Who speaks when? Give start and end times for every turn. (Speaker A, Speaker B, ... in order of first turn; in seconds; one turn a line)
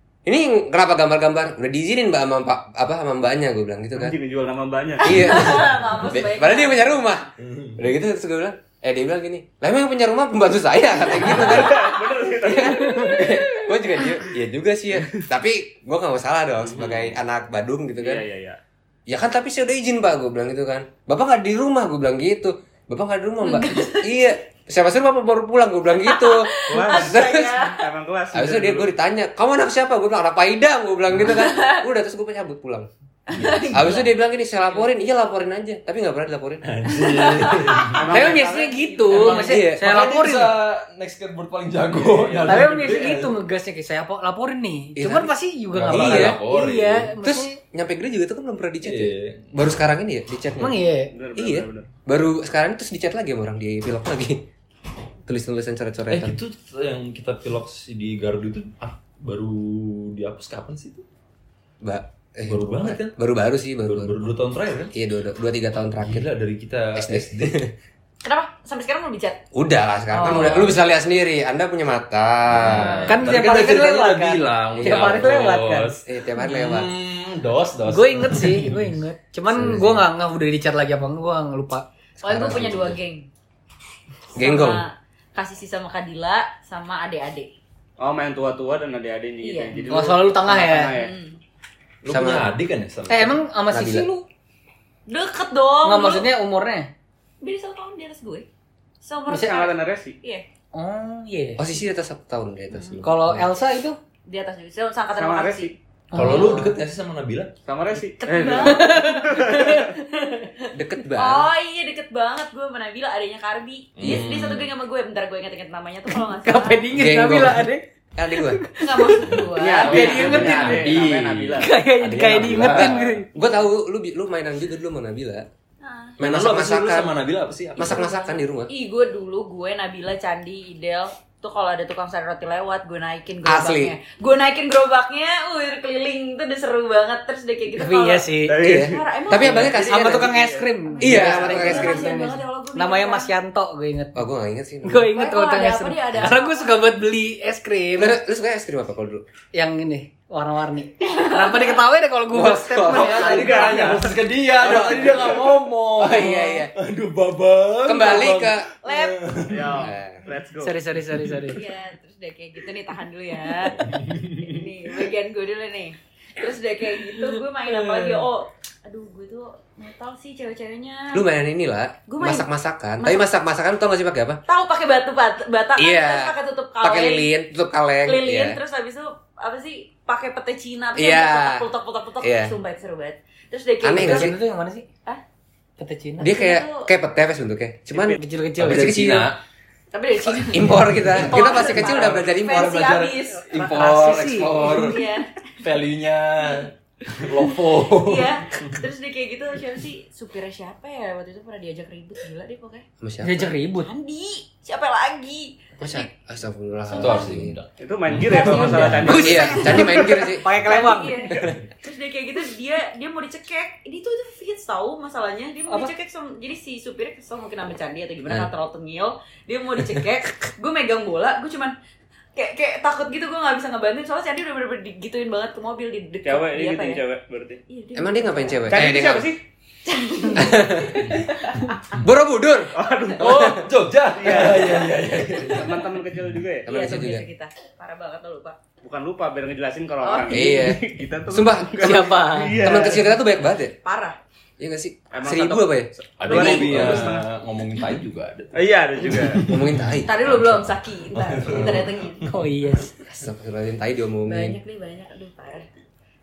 Speaker A: 0.2-4.2
Speaker B: 4.0-5.1
Speaker C: 5.0-7.1
Speaker A: 5.0-18.2
Speaker D: 7.4-7.9
Speaker B: 11.2-13.2
Speaker B: 16.6-17.0
Speaker D: 16.8-17.1
Speaker B: 18.0-18.6
Speaker A: 19.1-27.6
Speaker C: 23.4-24.1
Speaker C: 26.0-27.9
Speaker B: 26.7-28.9
Speaker A: 28.3-32.9
Speaker C: 31.2-31.9
Speaker C: 33.3-34.1
Speaker D: 33.3-33.7
Speaker A: 33.7-36.7
Speaker D: 36.6-38.0
Speaker C: 36.9-39.5
Speaker B: 37.9-39.4
Speaker E: 38.1-40.5
Speaker A: 39.2-39.9
Speaker D: 39.5-43.3
Speaker B: 41.9-43.0
Speaker E: 42.5-47.6
Speaker A: 45.0-45.3
Speaker D: 45.7-47.1
Speaker A: 45.9-46.4
Speaker A: 47.2-50.8
Speaker D: 48.8-49.5
Speaker E: 50.6-51.1
Speaker B: 51.1-51.9
Speaker A: 51.4-54.5
Speaker A: 55.2-56.4
Speaker D: 56.1-61.0
Speaker A: 61.8-64.2
Speaker D: 62.5-63.1
Speaker D: 63.8-64.9
Speaker A: 64.9-66.3
Speaker D: 66.0-67.6
Speaker A: 66.9-67.7
Speaker C: 68.2-69.4
Speaker A: 69.5-73.3
Speaker C: 70.1-70.7
Speaker D: 70.2-70.7
Speaker E: 70.3-70.5
Speaker D: 72.5-78.9
Speaker E: 73.1-76.0
Speaker A: 74.8-75.5
Speaker A: 76.0-76.9
Speaker E: 77.8-81.8
Speaker A: 79.5-79.9
Speaker C: 82.2-83.3
Speaker A: 82.2-83.0
Speaker C: 84.3-87.5
Speaker A: 84.3-84.8
Speaker B: 88.0-91.1
Speaker C: 89.4-90.0
Speaker E: 89.9-90.9
Speaker C: 90.9-91.4
Speaker D: 92.0-93.4
Speaker A: 92.0-92.5
Speaker E: 93.1-94.2
Speaker A: 93.7-94.1
Speaker C: 95.1-96.3
Speaker E: 95.8-96.9
Speaker C: 97.4-98.5
Speaker C: 99.0-100.4
Speaker E: 99.3-99.5
Speaker B: 99.3-100.2
Speaker E: 100.7-101.6
Speaker A: 101.6-103.5
Speaker C: 102.7-103.0
Speaker E: 103.0-104.0
Speaker C: 104.2-106.6
Speaker B: 105.2-105.7
Speaker E: 106.1-106.7
Speaker D: 106.1-107.5
Speaker B: 107.7-109.8
Speaker C: 108.2-109.4
Speaker E: 108.6-110.5
Speaker C: 110.2-116.9
Speaker A: 110.7-111.5
Speaker D: 114.0-114.7
Speaker E: 116.3-119.3
Speaker A: 116.9-118.7
Speaker C: 118.8-120.7
Speaker D: 119.3-123.2
Speaker B: 119.5-121.7
Speaker E: 119.9-120.8
Speaker E: 121.6-123.2
Speaker A: 122.0-125.4
Speaker C: 125.8-126.2
Speaker A: 126.2-127.1
Speaker D: 126.2-128.1
Speaker A: 127.8-128.7
Speaker C: 127.8-139.9
Speaker A: 133.4-133.9
Speaker E: 137.7-138.6
Speaker B: 138.5-140.7
Speaker A: 138.6-140.4
Speaker E: 139.7-144.2
Speaker C: 140.9-143.3
Speaker A: 141.0-142.2
Speaker A: 144.1-145.1
Speaker E: 144.8-148.2
Speaker C: 145.1-146.8
Speaker A: 147.9-149.2
Speaker E: 149.5-153.5
Speaker C: 151.0-151.8
Speaker A: 152.3-153.6
Speaker D: 152.9-159.9
Speaker C: 153.0-154.0
Speaker B: 153.2-155.3
Speaker A: 154.6-155.2
Speaker A: 156.0-156.7
Speaker A: 157.8-158.7
Speaker C: 158.8-159.2
Speaker B: 159.5-160.8
Speaker A: 159.8-160.3
Speaker E: 160.6-161.6
Speaker C: 161.5-171.2
Speaker D: 163.8-164.7
Speaker E: 167.2-168.2
Speaker A: 171.1-174.4
Speaker C: 172.1-172.5
Speaker C: 173.0-173.2
Speaker C: 174.5-177.3
Speaker A: 175.8-178.6
Speaker C: 178.0-184.3
Speaker A: 180.9-181.7
Speaker A: 182.2-182.5
Speaker A: 183.8-184.3
Speaker E: 183.9-184.9
Speaker E: 185.8-186.3
Speaker A: 186.2-189.3
Speaker C: 186.2-186.9
Speaker B: 187.9-188.2
Speaker E: 188.2-189.0
Speaker D: 188.6-189.4
Speaker C: 189.9-193.5
Speaker A: 190.2-192.8
Speaker D: 191.2-195.0
Speaker E: 193.4-194.9
Speaker C: 194.4-195.3
Speaker D: 195.6-198.8
Speaker C: 197.9-202.8
Speaker A: 203.0-203.5
Speaker E: 203.2-203.9
Speaker C: 203.7-206.1
Speaker A: 205.8-207.6
Speaker C: 206.9-207.3
Speaker D: 206.9-209.3
Speaker B: 207.8-210.2
Speaker C: 208.2-210.0
Speaker A: 209.1-210.5
Speaker E: 209.1-211.3
Speaker C: 210.6-221.7
Speaker C: 222.3-227.0
Speaker B: 226.2-227.6
Speaker C: 227.7-228.9
Speaker A: 227.9-229.3
Speaker B: 228.7-229.4
Speaker C: 229.8-231.9
Speaker A: 230.3-231.2
Speaker D: 231.0-231.3
Speaker A: 231.9-233.7
Speaker B: 232.7-233.6
Speaker D: 233.2-235.9
Speaker B: 234.1-236.7
Speaker A: 236.7-237.3
Speaker C: 236.7-238.6
Speaker B: 238.8-243.1
Speaker C: 240.0-240.7
Speaker A: 240.3-243.8
Speaker E: 241.8-242.6
Speaker C: 243.8-244.2
Speaker A: 244.6-247.1
Speaker B: 245.1-247.2
Speaker D: 246.2-252.4
Speaker C: 246.3-246.6
Speaker B: 248.5-249.4
Speaker A: 249.5-250.1
Speaker C: 250.0-252.2
Speaker A: 251.5-251.9
Speaker E: 252.2-252.9
Speaker A: 253.1-254.6
Speaker C: 254.3-255.7